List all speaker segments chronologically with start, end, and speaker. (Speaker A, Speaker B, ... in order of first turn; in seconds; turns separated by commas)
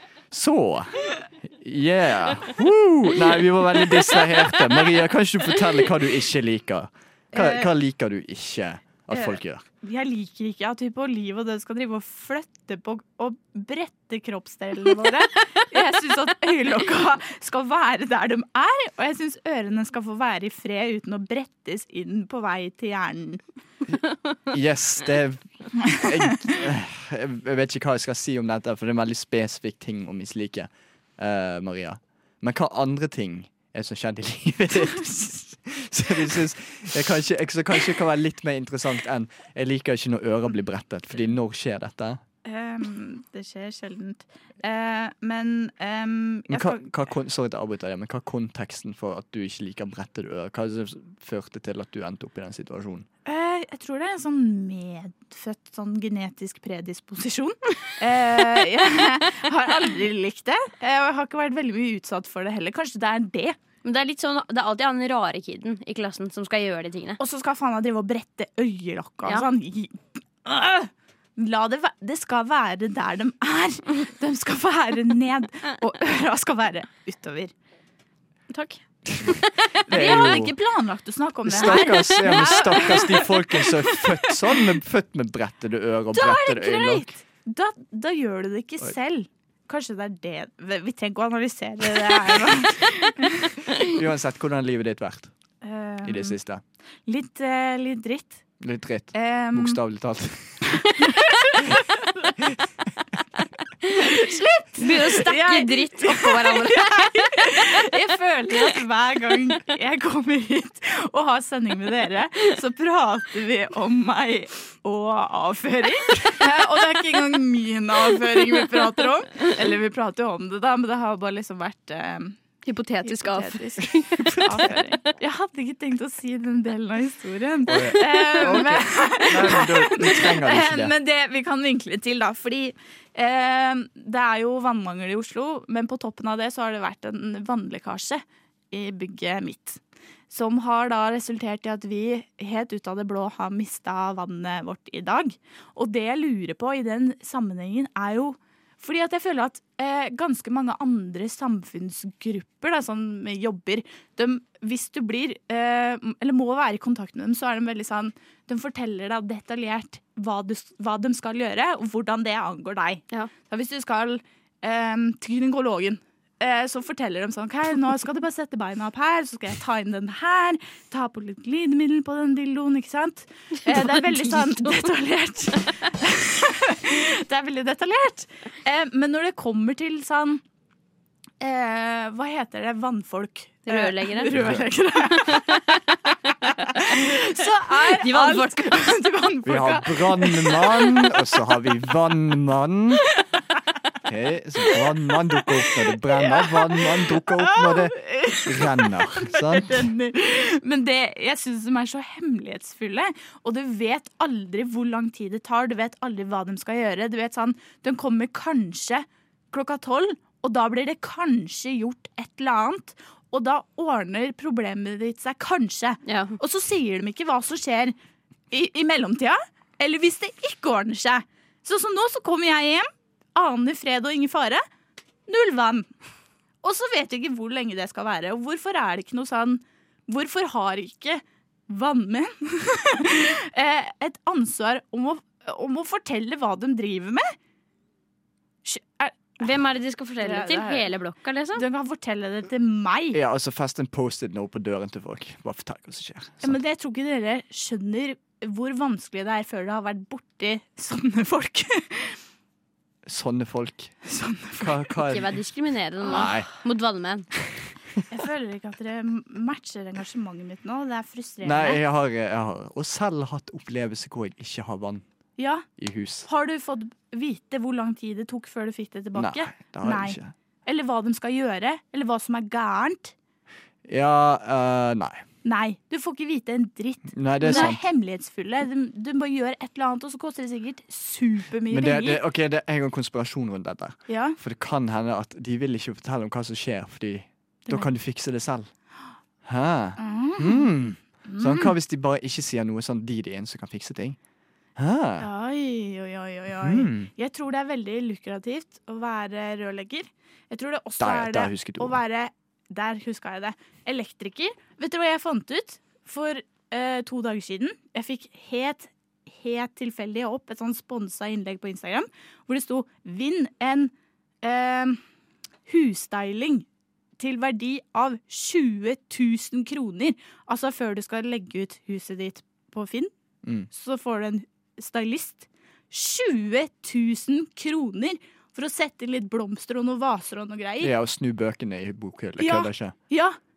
Speaker A: 0.3-9.6, Speaker B: 7.3-7.7, Speaker B: 9.1-23.4, Speaker A: 24.5-42.2, Speaker B: 42.4-46.8, Speaker A: 46.5-53.1, Speaker B: 53.2-63.5, Speaker C: 63.8-67.2, Speaker B: 67.2-77.5, Speaker C: 78.5-80.2, Speaker A: 79.1-80.5, Speaker B: 79.9-84.5, Speaker A: 81.5-87.1, Speaker C: 81.6-83.2, Speaker B: 86.1-93.6, Speaker A: 93.8-95.3, Speaker B: 95.6-96.3, Speaker A: 96.0-96.6, Speaker B: 97.0-98.4, Speaker A: 98.6-100.7, Speaker B: 99.1-99.8, Speaker B: 100.7-102.1, Speaker C: 103.8-107.5, Speaker B: 103.9-122.3, Speaker C: 122.7-124.8, Speaker B: 123.0-123.8, Speaker B: 124.4-180.4, Speaker A: 127.7-130.9, Speaker C: 128.4-128.7, Speaker B: 181.4-185.8, Speaker C: 183.7-184.3, Speaker A: 184.3-184.7, Speaker C: 185.2-185.6, Speaker B: 186.7-191.3, Speaker C: 186.7-187.0, Speaker C: 187.7-188.7, Speaker A: 189.4-193.0, Speaker A: 194.0-199.9, Speaker B: 196.1-217.9, Speaker C: 216.1-216.3, Speaker B: 218.5-224.6, Speaker B: 225.3-225.8, Speaker B: 226.6-237.3, Speaker B: 238.6-239.4, Speaker C: 239.4-241.6, Speaker B: 240.2-240.9, Speaker B: 241.5-243.2, Speaker A: 243.1-246.6, Speaker B: 246.4-252.2, Speaker A: 253.1-254.0, Speaker B: 254.1-254.9, Speaker A: 254.6-255.3, Speaker C: 255.1-257.3, Speaker A: 256.0-256.5, Speaker B: 258.1-261.8, Speaker A: 261.4-265.0, Speaker B: 265.4-265.6, Speaker A: 265.8-266.3, Speaker B: 266.2-273.1, Speaker A: 269.1-270.3, Speaker A: 273.9-275.2, Speaker B: 275.4-282.2, Speaker A: 277.1-277.9, Speaker C: 277.4-277.7, Speaker A: 281.7-288.7, Speaker B: 284.1-284.4, Speaker A: 289.4-294.2, Speaker B: 290.0-290.7, Speaker B: 291.3-291.7, Speaker A: 294.8-295.3, Speaker B: 295.2-315.0, Speaker A: 296.6-297.1, Speaker A: 301.0-302.0, Speaker B: 315.7-316.6, Speaker B: 317.2-323.1, Speaker B: 323.7-330.9, Speaker A: 330.8-332.9, Speaker B: 332.4-333.4